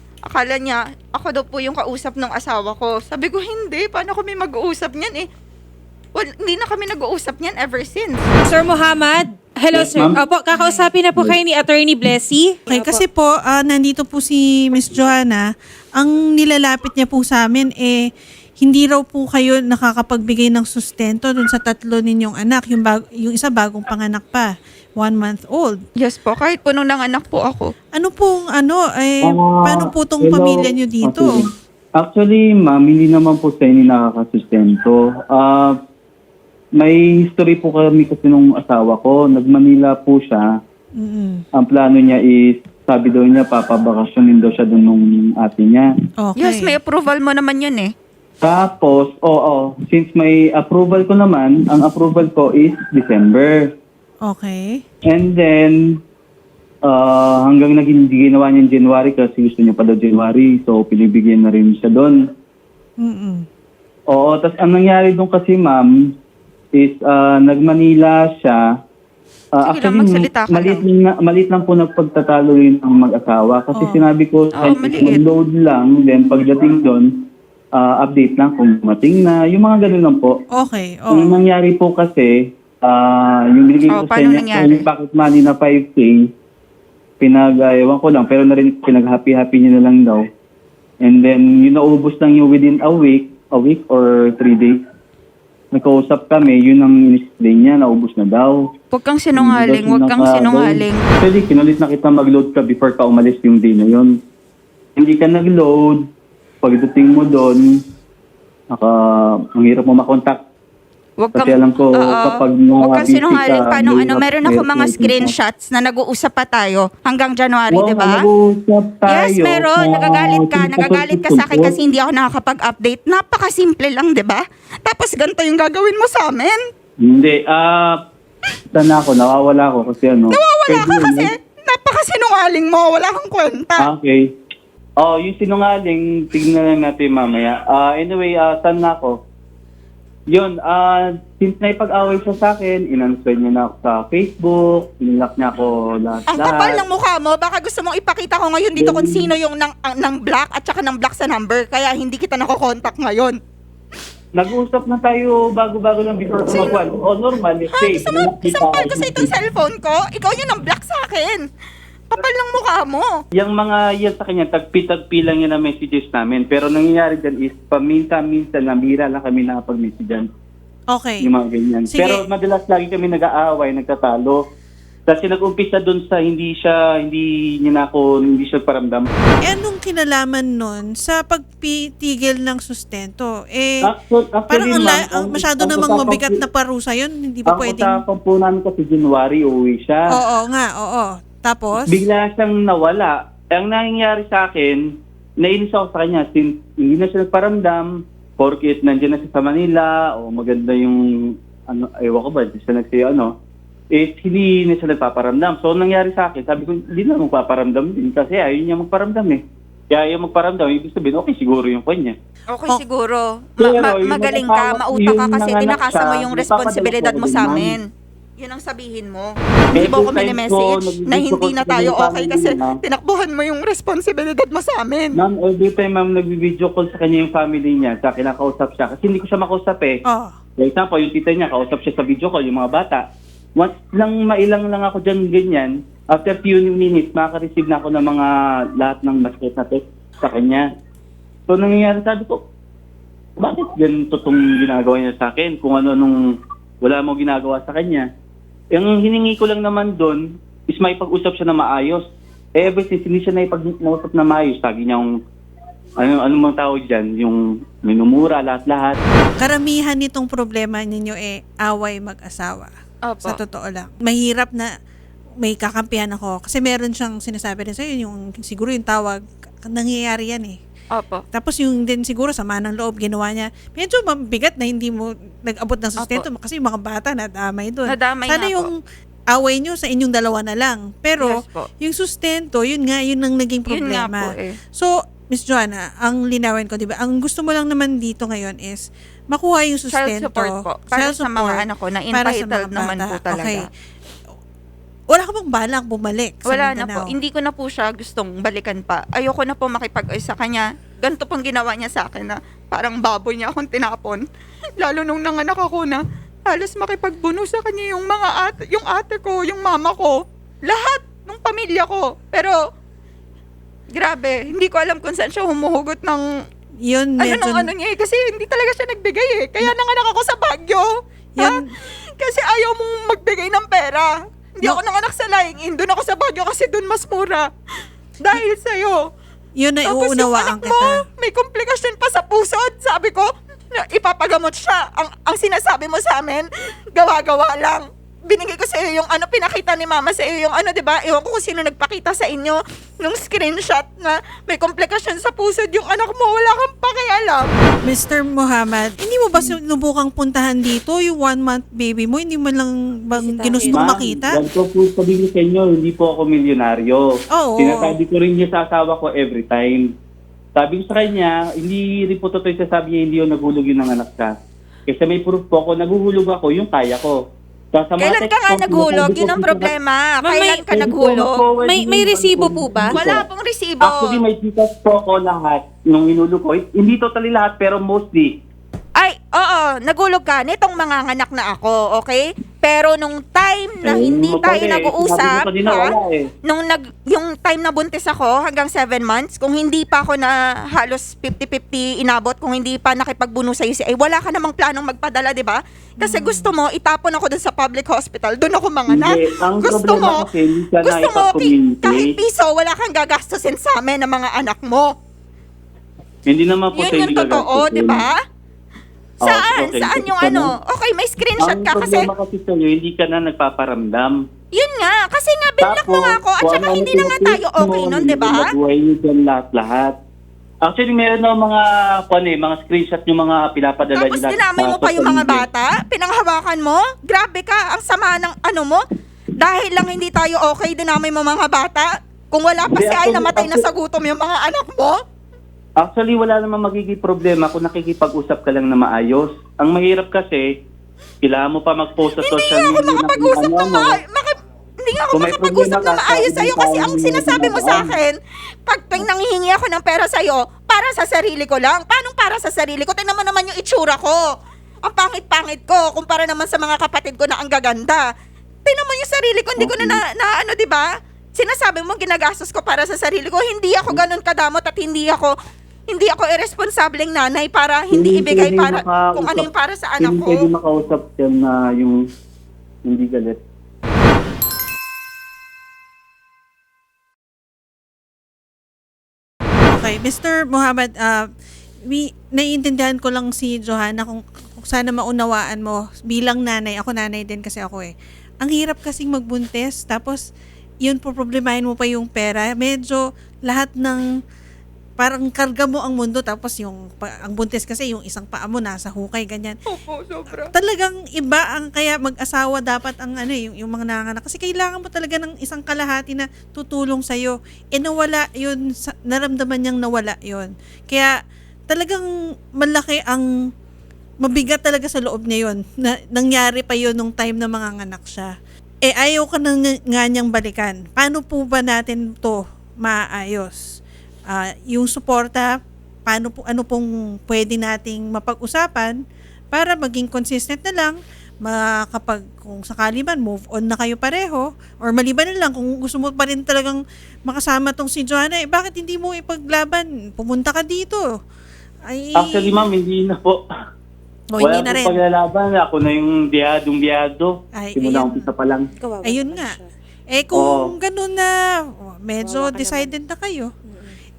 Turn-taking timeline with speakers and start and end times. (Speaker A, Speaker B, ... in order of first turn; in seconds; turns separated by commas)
Speaker A: 0.3-5.3, Speaker A: 6.2-8.3, Speaker B: 8.4-13.0, Speaker C: 9.7-10.2, Speaker D: 10.5-10.9, Speaker D: 12.7-15.4, Speaker D: 16.0-18.0, Speaker D: 18.6-25.8, Speaker A: 26.0-27.7, Speaker D: 27.9-31.4, Speaker C: 29.2-35.8, Speaker C: 36.8-40.5, Speaker D: 41.0-41.4, Speaker C: 41.6-45.9, Speaker D: 46.2-46.8, Speaker A: 46.4-47.9, Speaker C: 48.4-53.7, Speaker D: 54.2-54.8, Speaker C: 55.0-56.0, Speaker C: 56.9-62.2, Speaker D: 63.0-63.5, Speaker C: 64.1-66.1, Speaker C: 66.7-68.6, Speaker C: 69.5-77.1, Speaker A: 69.6-70.8, Speaker D: 73.7-74.0, Speaker A: 74.5-75.2, Speaker C: 77.7-80.4, Speaker D: 80.5-81.4, Speaker C: 81.1-86.3, Speaker A: 83.9-84.9, Speaker C: 87.2-90.2, Speaker C: 91.0-94.8, Speaker C: 95.7-98.7, Speaker A: 98.9-101.0, Speaker C: 99.4-104.1, Speaker C: 105.0-106.1, Speaker C: 106.6-107.7, Speaker C: 108.7-110.4, Speaker A: 111.2-118.2, Speaker C: 111.3-115.3, Speaker C: 117.7-121.8, Speaker A: 119.1-126.6, Speaker C: 127.0-128.0, Speaker C: 128.7-131.3, Speaker A: 130.3-133.9, Speaker C: 133.8-134.3, Speaker C: 135.0-139.2, Speaker C: 140.3-146.8, Speaker A: 146.3-153.4, Speaker C: 148.8-149.3, Speaker C: 154.3-159.3, Speaker A: 156.5-156.8, Speaker A: 157.7-161.4, Speaker A: 162.1-163.1, Speaker C: 163.3-170.3, Speaker D: 170.9-171.3, Speaker C: 171.2-174.4, Speaker D: 171.9-172.2, Speaker C: 175.1-179.1, Speaker D: 179.5-183.9, Speaker C: 183.8-186.4, Speaker D: 184.5-188.0, Speaker C: 187.5-190.1, Speaker D: 190.1-192.0, Speaker C: 191.9-194.8, Speaker C: 195.4-203.3, Speaker C: 203.9-212.2, Speaker A: 212.5-217.9, Speaker C: 213.6-217.8, Speaker A: 218.4-225.2, Speaker C: 219.7-222.8, Speaker C: 225.2-230.0, Speaker D: 230.1-230.3, Speaker C: 230.6-233.0, Speaker C: 233.6-240.7, Speaker C: 241.5-242.4, Speaker C: 243.4-246.2, Speaker C: 246.8-248.1, Speaker C: 248.7-252.0, Speaker C: 252.6-255.1, Speaker C: 256.0-259.0, Speaker D: 259.4-262.7, Speaker A: 263.1-263.4, Speaker D: 263.2-264.7, Speaker D: 265.4-270.6, Speaker A: 270.9-271.2, Speaker D: 271.3-278.8, Speaker A: 276.0-276.3, Speaker A: 277.9-278.7, Speaker D: 279.3-293.7, Speaker A: 281.2-281.7, Speaker A: 283.7-284.6, Speaker A: 289.9-293.7, Speaker D: 295.1-297.1, Speaker A: 296.5-304.2, Speaker A: 304.8-310.1, Speaker A: 310.7-312.6, Speaker A: 313.9-316.2, Speaker D: 316.9-317.7, Speaker A: 317.2-320.9, Speaker D: 321.4-321.7, Speaker A: 322.2-327.4, Speaker A: 328.2-329.0, Speaker D: 329.6-331.0, Speaker A: 329.9-347.5, Speaker D: 347.9-354.4, Speaker B: 353.1-354.2, Speaker C: 353.7-357.1, Speaker D: 357.3-357.9, Speaker C: 357.6-359.9, Speaker C: 360.6-364.3, Speaker C: 364.9-367.2, Speaker C: 367.7-369.7, Speaker A: 368.0-371.4, Speaker B: 370.2-370.8, Speaker C: 370.7-373.2, Speaker B: 371.6-373.0, Speaker A: 372.9-374.2, Speaker C: 373.8-378.3, Speaker A: 379.0-400.3, Speaker C: 383.8-386.3, Speaker D: 396.0-396.5, Speaker C: 398.9-402.1, Speaker A: 400.8-404.9, Speaker C: 406.3-408.1, Speaker A: 406.7-408.1, Speaker C: 409.2-410.5, Speaker A: 409.2-412.1, Speaker C: 411.4-414.2, Speaker A: 414.5-418.5, Speaker C: 415.6-419.9, Speaker C: 420.6-425.5, Speaker A: 423.9-428.8, Speaker A: 429.4-435.0, Speaker C: 432.7-433.6, Speaker C: 435.8-440.5, Speaker C: 441.2-444.0, Speaker A: 442.2-454.2, Speaker C: 445.1-448.0, Speaker A: 454.9-458.0, Speaker A: 458.7-460.8, Speaker C: 459.6-460.0, Speaker A: 461.4-465.3, Speaker A: 465.9-470.5, Speaker C: 467.9-469.5, Speaker C: 470.0-472.0, Speaker C: 472.9-473.4, Speaker D: 479.7-481.3, Speaker D: 481.9-487.9, Speaker D: 488.4-490.2, Speaker D: 490.9-494.1, Speaker D: 495.0-499.6, Speaker A: 499.7-500.5, Speaker D: 500.3-511.1, Speaker D: 511.7-512.0, Speaker D: 512.6-513.3, Speaker D: 514.2-518.3, Speaker D: 518.9-529.0, Speaker D: 529.5-541.0, Speaker D: 541.9-542.6, Speaker C: 542.2-543.4, Speaker D: 544.3-545.0, Speaker C: 544.4-548.7, Speaker D: 547.5-548.3, Speaker B: 548.8-549.7, Speaker D: 549.0-549.6, Speaker D: 550.1-553.5, Speaker C: 550.4-550.7, Speaker B: 552.2-552.9, Speaker B: 553.7-554.0